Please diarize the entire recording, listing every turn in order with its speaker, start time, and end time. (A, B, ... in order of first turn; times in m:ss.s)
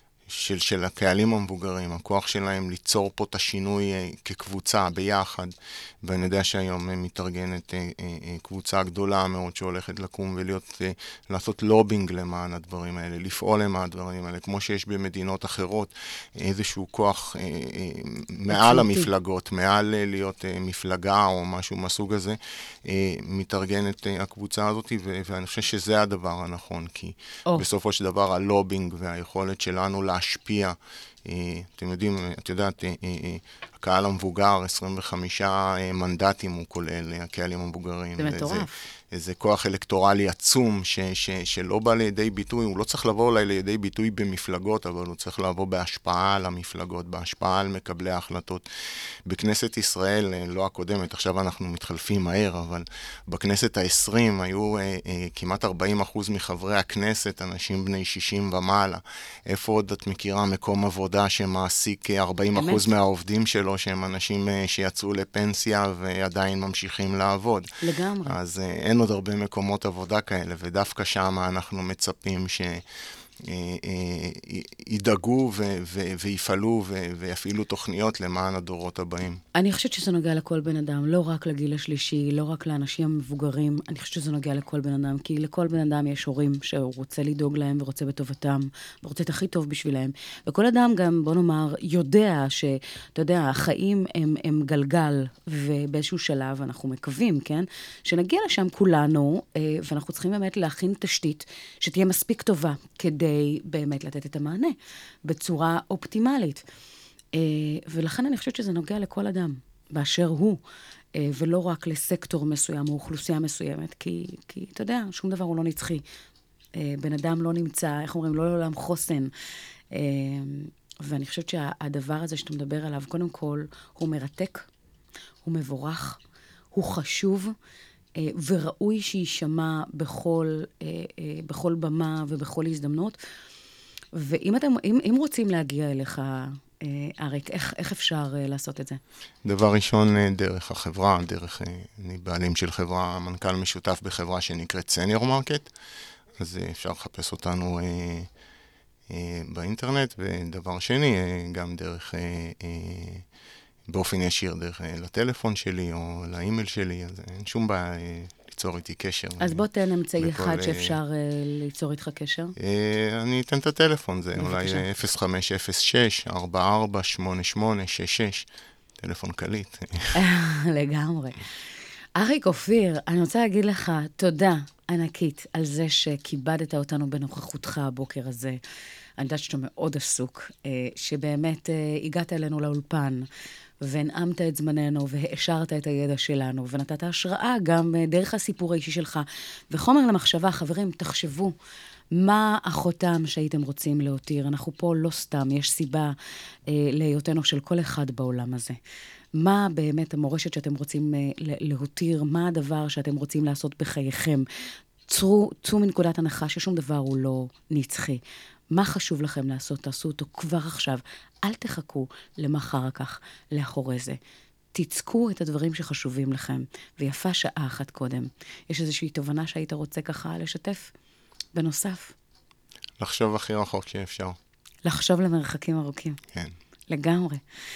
0:00.3-0:48.6 A
0:18.5-0:19.1 B
0:38.2-0:38.7 B
0:49.3-1:07.7 A
1:02.5-1:02.8 B
1:07.8-1:08.4 B
1:08.2-1:12.8 A
1:13.4-1:19.4 A
1:19.5-1:46.6 B
1:47.3-1:50.6 B
1:51.2-1:56.0 B
1:56.8-1:59.3 B
1:59.9-2:04.7 B
2:05.4-2:06.2 B
2:06.7-2:07.5 B
2:08.2-2:13.2 B
2:14.1-2:19.0 B
2:19.4-2:25.7 A
2:26.4-2:28.3 A
2:29.1-2:33.2 A
2:33.9-2:39.6 A
2:39.4-2:42.5 B
2:40.2-2:41.0 A
2:42.6-2:48.5 A
2:44.4-2:44.9 B
2:49.0-2:50.1 A
2:50.2-2:51.4 B
2:52.2-2:58.6 B
2:59.2-3:03.2 B
3:03.8-3:11.5 B
3:12.1-3:16.1 B
3:16.7-3:18.8 B
3:19.4-3:24.4 B
3:25.1-3:28.2 B
3:28.7-3:34.2 B
3:34.7-3:40.9 B
3:41.5-3:42.1 B
3:43.0-3:44.4 A
3:44.8-3:46.2 B
3:46.9-3:47.4 B